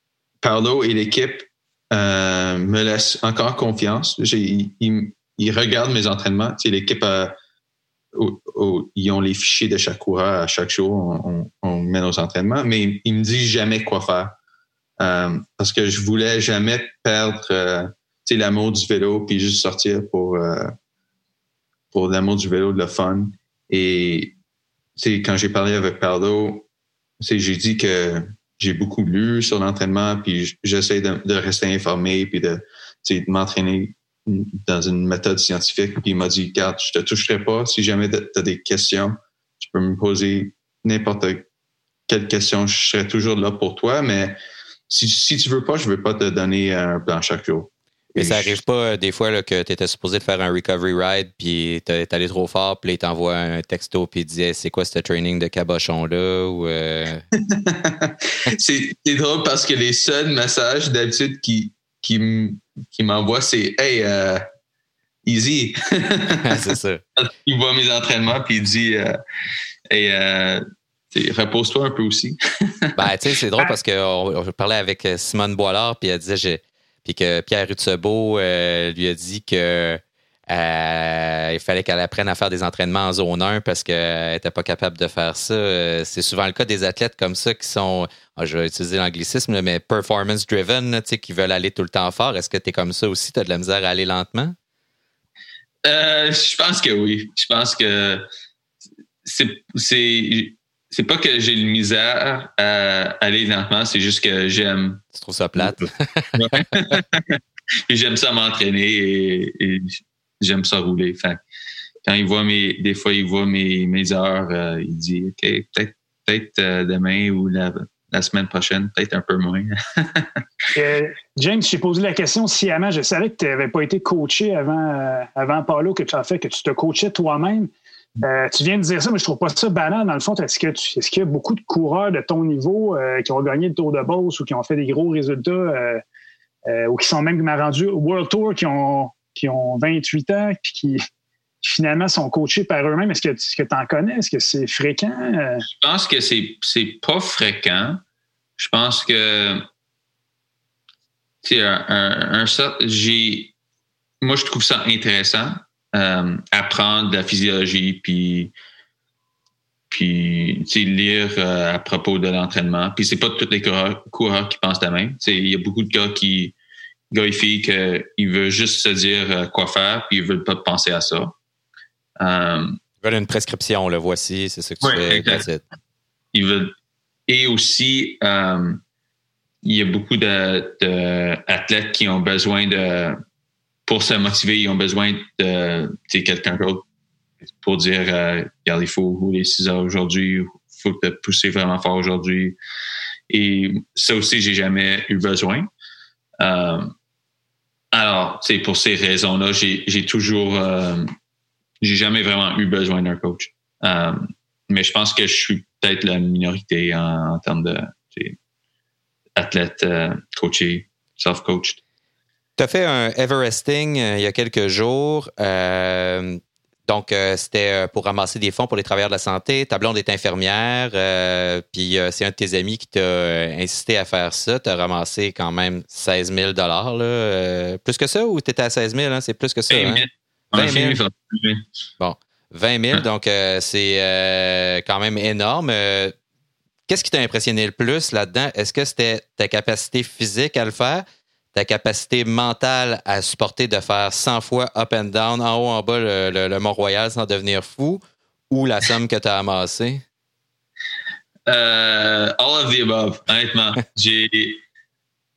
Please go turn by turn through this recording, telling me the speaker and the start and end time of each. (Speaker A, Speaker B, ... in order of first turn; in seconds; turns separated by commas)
Speaker A: 0.4-7.4, Speaker A: 8.1-14.3, Speaker A: 15.0-20.7, Speaker A: 21.9-24.4, Speaker A: 25.0-26.7, Speaker A: 27.2-41.5, Speaker A: 42.1-44.4, Speaker A: 44.9-48.6, Speaker B: 48.1-57.2, Speaker A: 57.4-64.4, Speaker A: 65.2-66.6, Speaker B: 66.4-67.0, Speaker A: 67.2-69.2, Speaker A: 69.9-73.0, Speaker B: 73.0-94.5, Speaker A: 95.8-98.2, Speaker A: 99.2-105.0, Speaker B: 105.1-107.0, Speaker A: 105.6-111.4, Speaker A: 112.0-120.4, Speaker C: 120.8-136.0, Speaker C: 136.7-141.0, Speaker C: 141.6-145.6, Speaker A: 145.7-148.0, Speaker A: 148.6-149.6, Speaker A: 151.4-153.5, Speaker A: 154.2-158.5, Speaker A: 159.9-166.6, Speaker A: 167.1-171.3, Speaker A: 172.2-172.8, Speaker B: 173.0-175.6, Speaker A: 174.8-175.4, Speaker A: 176.3-176.7, Speaker A: 177.3-178.8, Speaker A: 179.6-183.2, Speaker A: 183.9-186.8, Speaker A: 187.5-192.6, Speaker A: 193.3-195.7, Speaker A: 196.4-196.9, Speaker A: 197.9-201.1, Speaker A: 201.8-208.3, Speaker A: 209.3-211.8, Speaker B: 212.6-231.0, Speaker A: 229.7-231.6, Speaker B: 232.0-236.1, Speaker B: 236.9-250.0, Speaker A: 251.5-254.6